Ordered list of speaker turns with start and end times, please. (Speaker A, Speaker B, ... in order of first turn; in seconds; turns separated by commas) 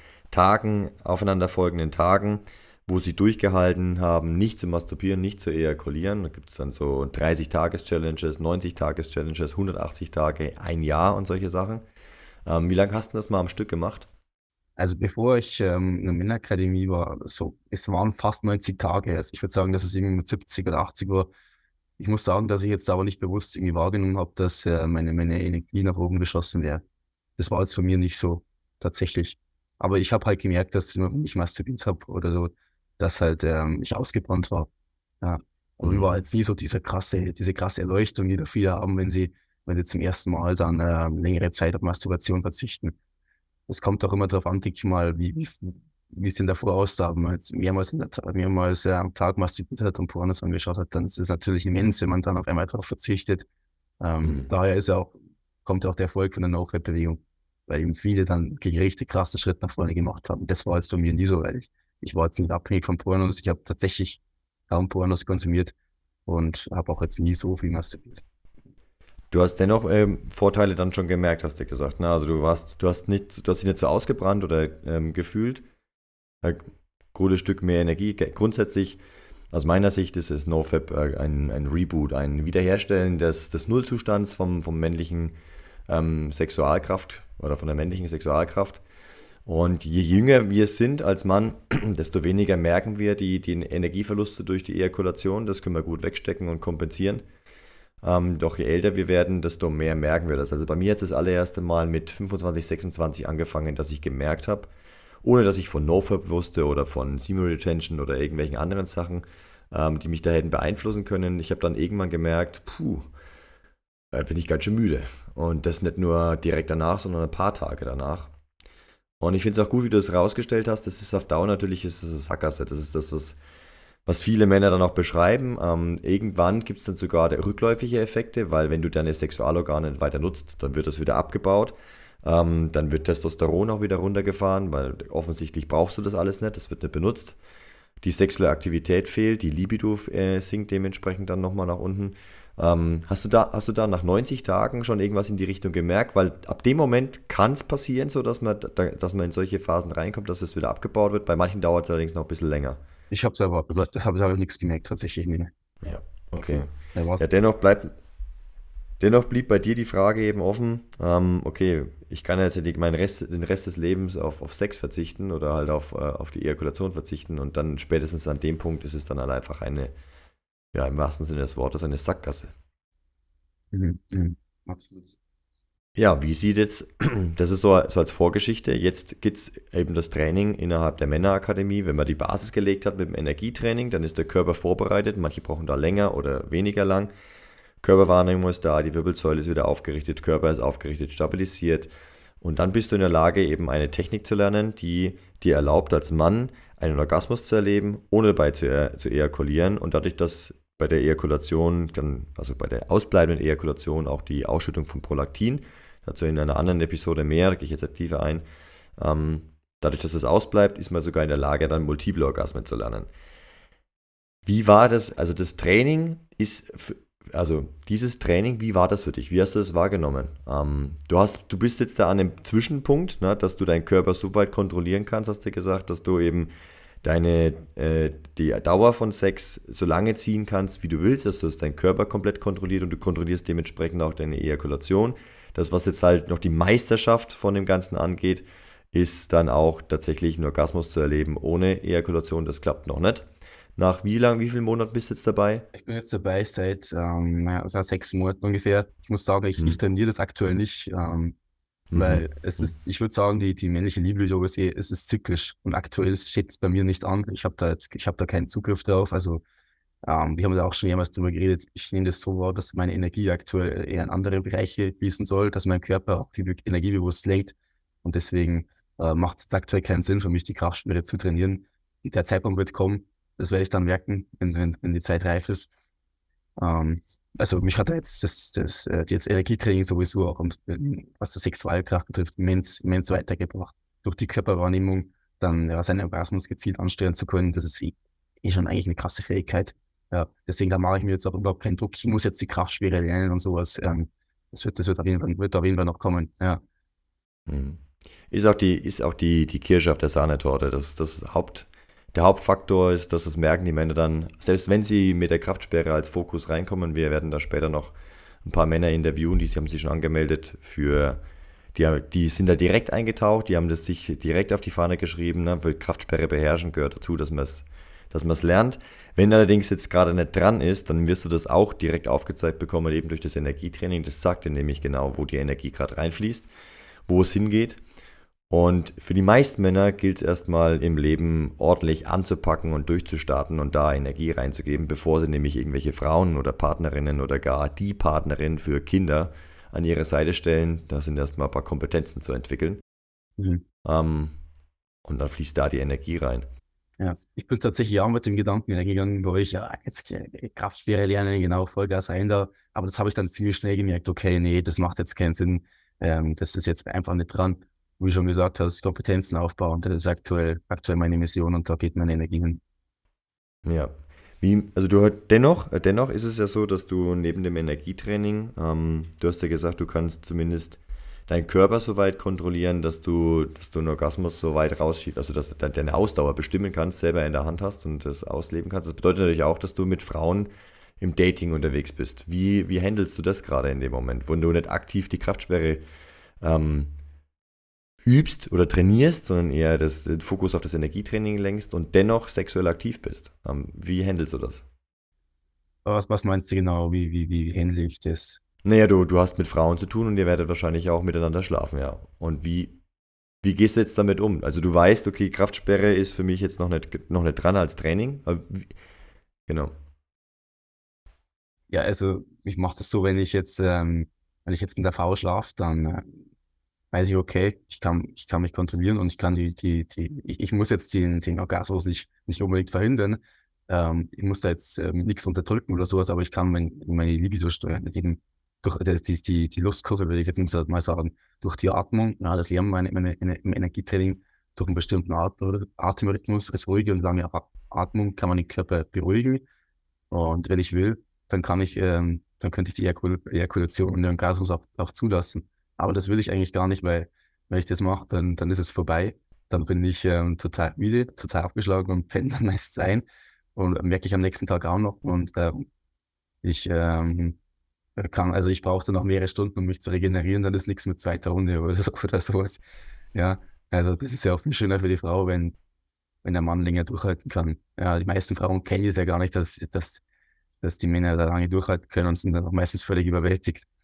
Speaker A: 0.3-11.8, Speaker A: 12.4-14.1, Speaker B: 14.8-21.3, Speaker B: 22.0-26.8, Speaker B: 27.4-34.7, Speaker B: 35.2-43.0, Speaker B: 43.7-53.5, Speaker B: 54.0-55.1, Speaker A: 54.2-54.5, Speaker B: 55.6-65.7, Speaker B: 66.2-68.2, Speaker A: 69.3-75.6, Speaker A: 76.4-79.0, Speaker A: 79.5-85.3, Speaker A: 85.9-88.8, Speaker A: 89.5-97.2, Speaker A: 98.0-104.7, Speaker A: 105.2-113.1, Speaker A: 114.1-118.3, Speaker A: 119.2-123.4, Speaker A: 124.0-137.4, Speaker A: 138.0-152.8, Speaker B: 153.1-155.5, Speaker A: 155.8-157.9, Speaker B: 156.9-157.2, Speaker A: 159.0-169.9, Speaker A: 170.7-172.5, Speaker B: 173.7-175.2, Speaker A: 175.9-187.1, Speaker A: 187.8-208.4, Speaker A: 209.0-213.1, Speaker A: 214.4-226.5, Speaker A: 227.0-245.7, Speaker B: 245.7-251.3, Speaker A: 251.9-252.7, Speaker B: 251.9-259.4, Speaker B: 260.0-275.7, Speaker B: 276.6-296.6, Speaker A: 297.5-311.2, Speaker A: 311.7-326.5, Speaker A: 327.1-327.8, Speaker A: 328.5-342.8, Speaker B: 343.4-343.6, Speaker A: 343.8-344.4, Speaker A: 345.0-346.5, Speaker B: 347.0-362.6, Speaker A: 363.6-385.8, Speaker A: 386.4-386.9, Speaker A: 388.0-394.6, Speaker B: 395.8-398.4, Speaker A: 398.6-402.8, Speaker A: 403.4-408.7, Speaker A: 409.5-409.7, Speaker B: 411.7-416.2, Speaker B: 416.9-439.4, Speaker B: 440.1-455.7, Speaker B: 456.4-457.4, Speaker B: 457.9-462.6, Speaker B: 463.1-465.6, Speaker B: 466.2-470.0, Speaker B: 470.6-473.6